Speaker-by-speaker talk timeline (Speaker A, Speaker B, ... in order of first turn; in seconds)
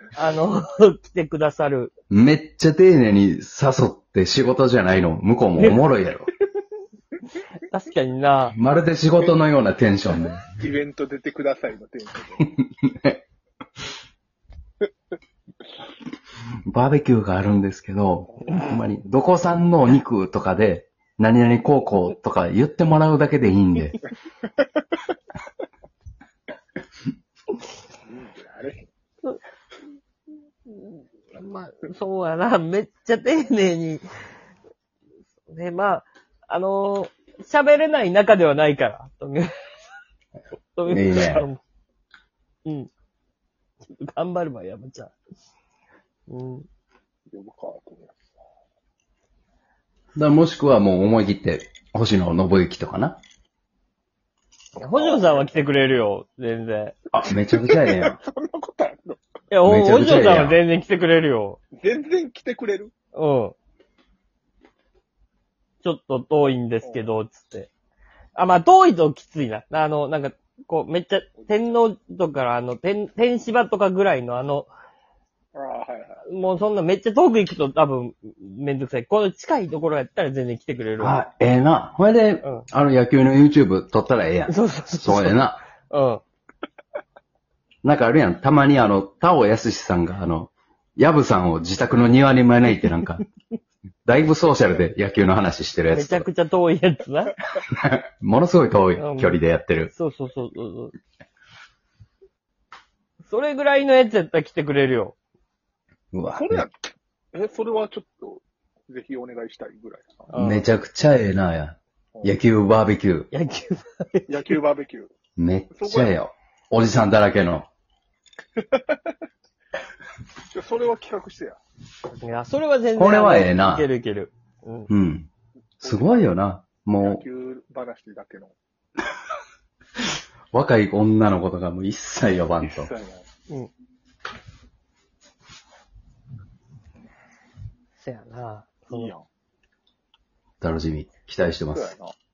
Speaker A: 0.1-1.9, 7.6-8.6, 31.4-34.0, 35.5-39.5, 40.8-41.6, 43.9-45.1, 46.3-46.7, 54.8-57.0, 59.5-61.6, 63.1-63.5, 65.8-67.7, 68.3-74.7, 76.3-81.2, 84.5-86.2, 95.9-97.4, 99.0-99.4, 99.9-100.9, 103.3-105.2, 110.3-110.7, 113.3-114.6, 122.2-124.9, 138.0-139.1
Speaker B: 2.1-6.3, 8.5-10.5, 12.6-13.2, 16.7-24.0, 40.9-41.5, 50.1-53.2, 57.1-58.2, 59.6-60.6, 81.0-85.6, 87.8-93.2, 94.1-96.3, 97.7-99.9, 106.1-106.6, 110.3-113.3, 115.4-117.7, 123.0-123.9, 124.9-125.3, 125.8-127.2, 130.5-132.9, 140.6-141.9
Speaker C: 10.4-12.5, 28.1-28.9, 47.3-48.2, 54.8-55.7, 57.3-59.2, 61.8-62.9, 66.8-67.1, 71.4-71.8, 75.5-76.2, 106.4-110.4, 114.3-115.1, 115.8-116.2, 118.6-119.1, 120.5-121.6, 125.8-126.3, 127.0-128.5, 132.6-133.2, 138.9-139.2, 141.7-142.1